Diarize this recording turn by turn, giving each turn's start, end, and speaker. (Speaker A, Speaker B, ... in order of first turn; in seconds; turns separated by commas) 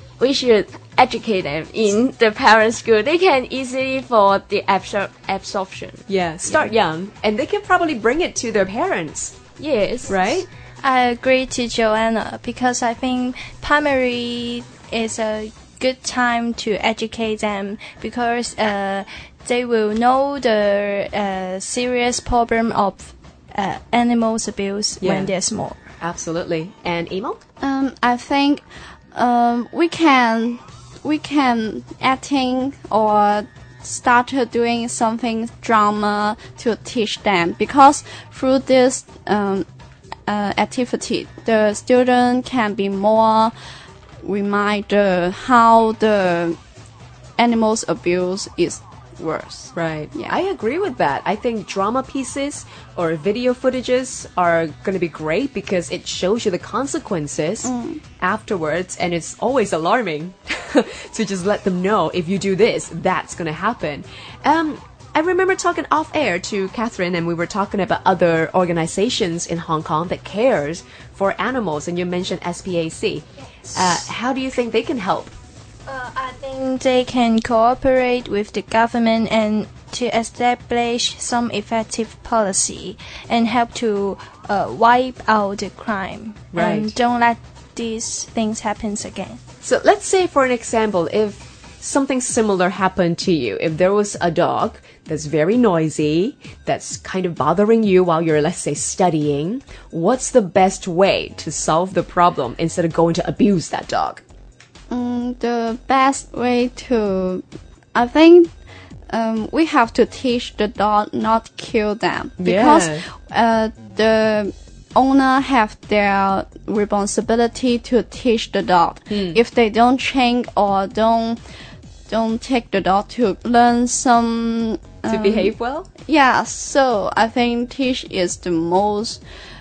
Speaker A: 0.2-6.7, Speaker B: 6.1-9.3, Speaker A: 9.6-10.2, Speaker B: 10.1-10.5, Speaker C: 10.8-25.8, Speaker B: 25.0-25.3, Speaker B: 26.0-27.4, Speaker D: 27.6-39.7, Speaker D: 40.3-43.5, Speaker D: 44.2-46.6, Speaker D: 47.4-50.4, Speaker B: 49.7-75.3, Speaker D: 57.6-58.0, Speaker C: 75.9-89.4, Speaker B: 86.5-87.0, Speaker B: 89.6-104.2, Speaker D: 104.9-108.5, Speaker D: 109.1-121.4, Speaker B: 112.4-113.0, Speaker B: 119.1-119.4, Speaker D: 122.1-125.5, Speaker B: 125.1-125.9, Speaker D: 126.0-129.2